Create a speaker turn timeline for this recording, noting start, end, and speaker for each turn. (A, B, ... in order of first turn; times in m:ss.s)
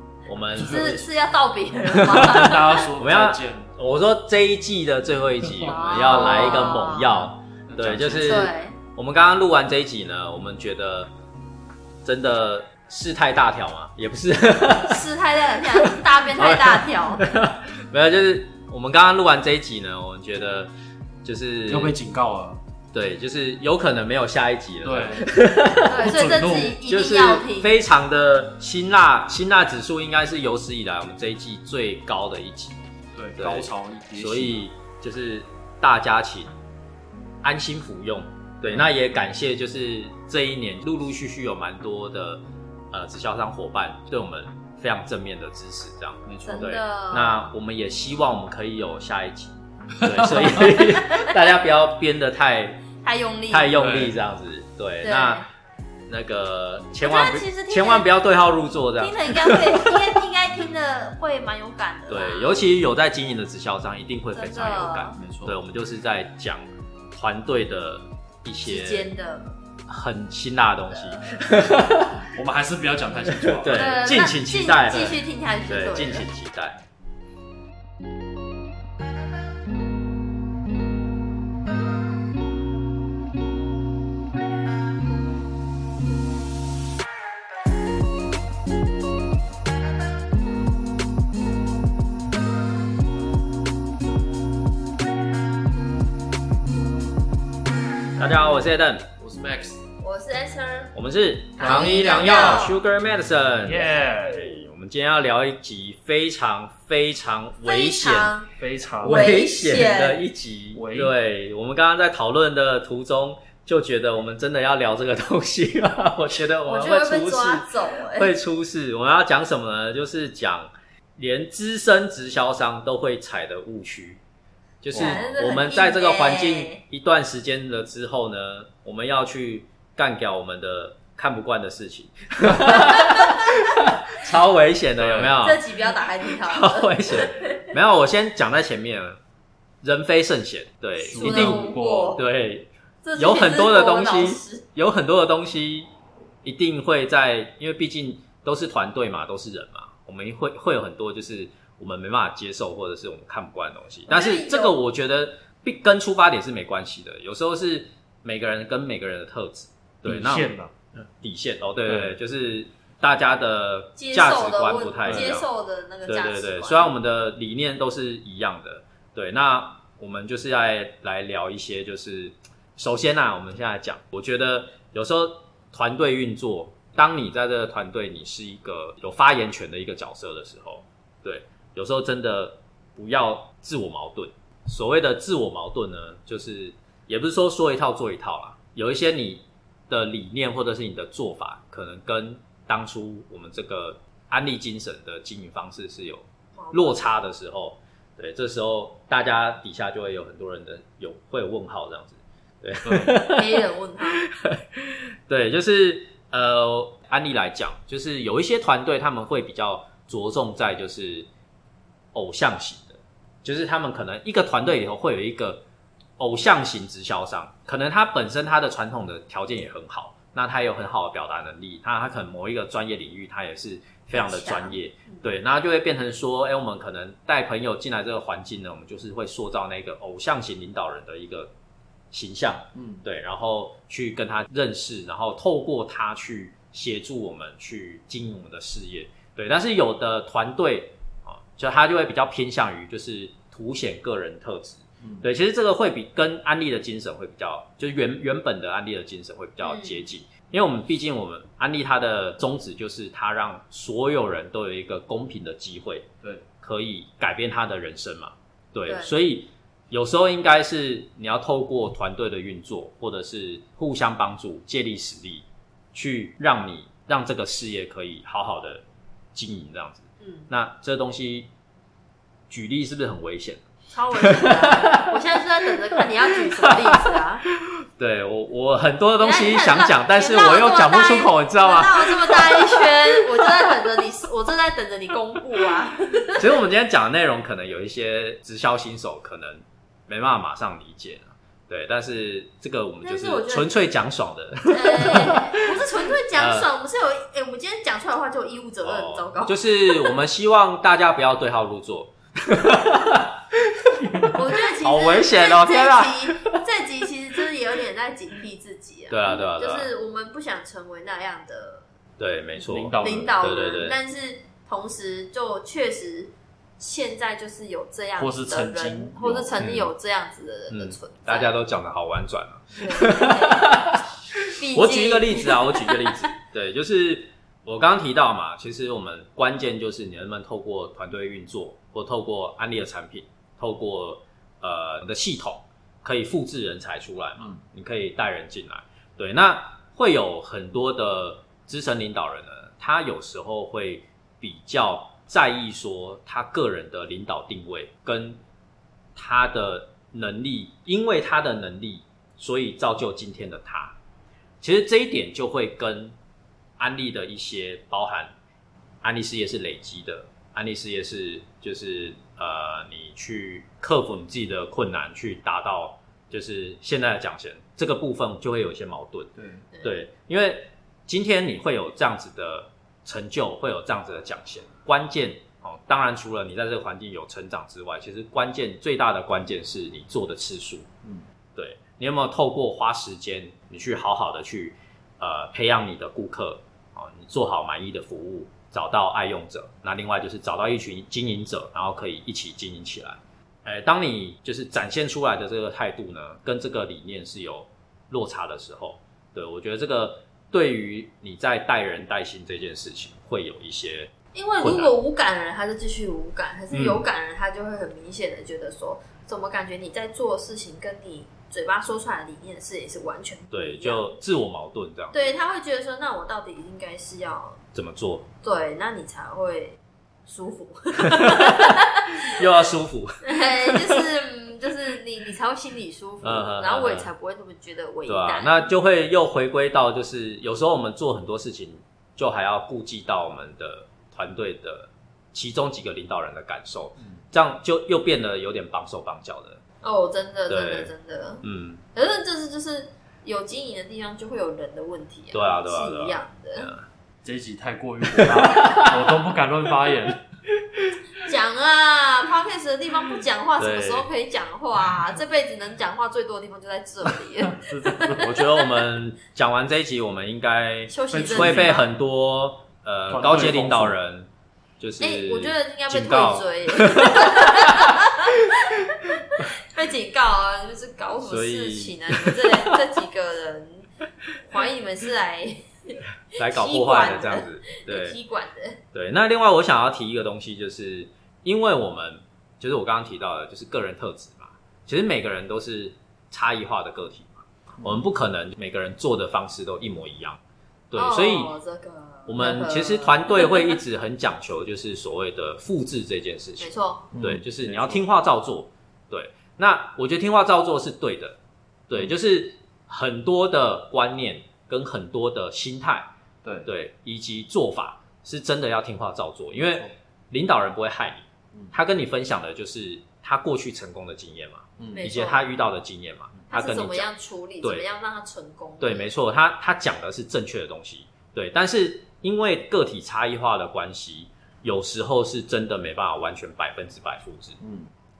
0:00.3-0:01.0 A
0:00.6-0:01.0 B
0:00.6-0:02.9 C
0:01.9-0:11.1 A
0:02.0-0:03.7 B
0:05.4-0:06.6 B
0:05.6-0:07.3 C
0:07.7-0:08.5 B
0:08.2-0:08.8 C
0:12.0-0:15.0 A
0:14.8-0:17.3 C
0:15.8-0:20.7 A
0:21.2-0:21.9 A
0:21.7-0:22.6 B
0:22.9-0:26.1 A
0:24.8-0:25.3 B
0:25.8-0:27.7 C
0:26.0-0:26.8 B
0:26.8-0:32.8 A
0:33.2-0:34.6 B
0:33.4-0:36.5 A
0:37.4-0:52.8 A
0:46.2-0:46.7 B
0:46.4-0:47.5 C
0:50.1-0:50.6 B
0:50.8-0:51.3 C
0:53.0-0:53.7 C
0:53.5-0:55.4 A
0:53.8-0:54.2 B
0:55.0-0:55.4 C
0:56.1-0:59.9 A
0:57.0-0:58.1 C
0:59.0-1:02.7 C
1:02.1-1:09.1 A
1:04.3-1:05.2 C
1:05.2-1:05.5 B
1:08.6-1:09.5 C
1:09.9-1:12.2 A
1:10.9-1:11.5 C
1:12.2-1:13.9 B
1:13.4-1:16.8 A
1:13.7-1:16.2 C
1:38.2-1:39.1 A
1:39.2-1:39.8 B
1:40.0-1:40.9 C
1:40.9-1:48.4 A
1:41.6-1:42.8 C
1:41.6-1:42.7 B
1:43.6-1:44.6 B
1:47.6-1:48.5 C
1:48.6-1:49.3 B
1:49.0-2:04.2 A
1:49.0-1:50.2 C
1:50.7-1:51.1 B
1:56.6-1:58.3 C
2:04.8-2:15.6 A
2:04.9-2:05.3 B
2:04.9-2:06.8 C
2:15.0-2:15.4 B
2:15.4-2:17.7 C
2:16.4-2:19.2 A
2:19.8-2:25.9 A
2:21.1-2:22.2 B
2:21.1-2:22.2 C
2:23.0-2:24.6 C
2:26.4-2:45.5 A
2:34.1-2:34.8 C
2:40.0-2:40.7 B
2:41.8-2:42.2 B
2:44.0-2:46.9 C
2:45.0-2:45.3 B
2:46.1-3:31.3 A
3:16.6-3:17.1 C
3:22.8-3:23.2 B
3:23.2-3:24.2 C
3:32.1-3:35.6 A
3:36.2-3:51.5 A
3:44.1-3:45.2 C
3:52.1-4:16.1 A
3:52.7-3:53.0 B
4:09.6-4:10.1 C
4:16.6-4:28.8 A
4:18.9-4:19.1 C
4:29.3-4:31.5 A
4:30.2-4:30.5 C
4:32.5-4:33.6 A
4:33.9-4:37.4 C
4:34.2-4:43.2 A
4:39.2-4:46.4 C
4:46.4-4:55.8 A
4:53.0-4:53.7 C
4:54.6-5:00.1 C
4:56.3-4:56.7 A
4:58.8-5:06.6 A
5:04.0-5:04.3 B
5:04.3-5:11.8 C
5:09.1-5:09.9 A
5:12.2-5:14.0 A
5:12.7-5:13.4 B
5:13.0-5:21.5 C
5:18.2-5:19.4 B
5:19.2-5:19.9 A
5:20.7-5:48.4 A
5:22.7-5:26.2 C
5:49.2-5:53.9 A
5:54.6-5:56.1 A
5:56.8-5:58.3 A
5:59.0-6:20.9 A
6:09.4-6:09.6 B
6:21.6-6:44.9 A
6:44.3-6:54.0 C
6:46.7-6:47.0 A
6:53.5-6:55.4 A
6:55.1-6:57.6 C
6:57.7-6:58.2 A
6:58.4-7:02.4 C
7:01.0-7:04.0 A
7:03.2-7:08.7 C
7:06.2-7:07.1 A
7:08.0-7:19.6 A
7:19.8-7:21.4 C
7:20.5-7:20.9 A
7:21.4-7:21.8 A
7:21.9-7:26.7 C
7:25.3-7:26.8 A
7:27.2-7:30.2 B
7:28.1-7:29.0 A
7:31.2-7:38.7 C
7:33.6-7:34.1 A
7:37.4-7:38.3 B
7:38.2-7:48.0 A
7:40.9-7:41.9 C
7:41.1-7:41.8 B
7:43.1-7:44.0 B
7:45.0-7:53.9 C
7:51.2-7:52.7 A
7:54.4-7:58.8 C
7:56.3-7:58.2 A
7:58.9-8:10.4 A
8:10.9-8:11.5 A
8:11.0-8:13.8 C
8:12.2-8:21.4 A
8:16.6-8:17.1 C
8:17.1-8:18.0 B
8:21.9-8:26.1 A
8:26.4-8:26.7 B
8:26.6-8:37.1 A
8:34.8-8:35.1 B
8:34.9-8:35.5 C
8:36.5-8:39.1 C
8:38.8-8:47.6 A
8:47.6-8:47.9 B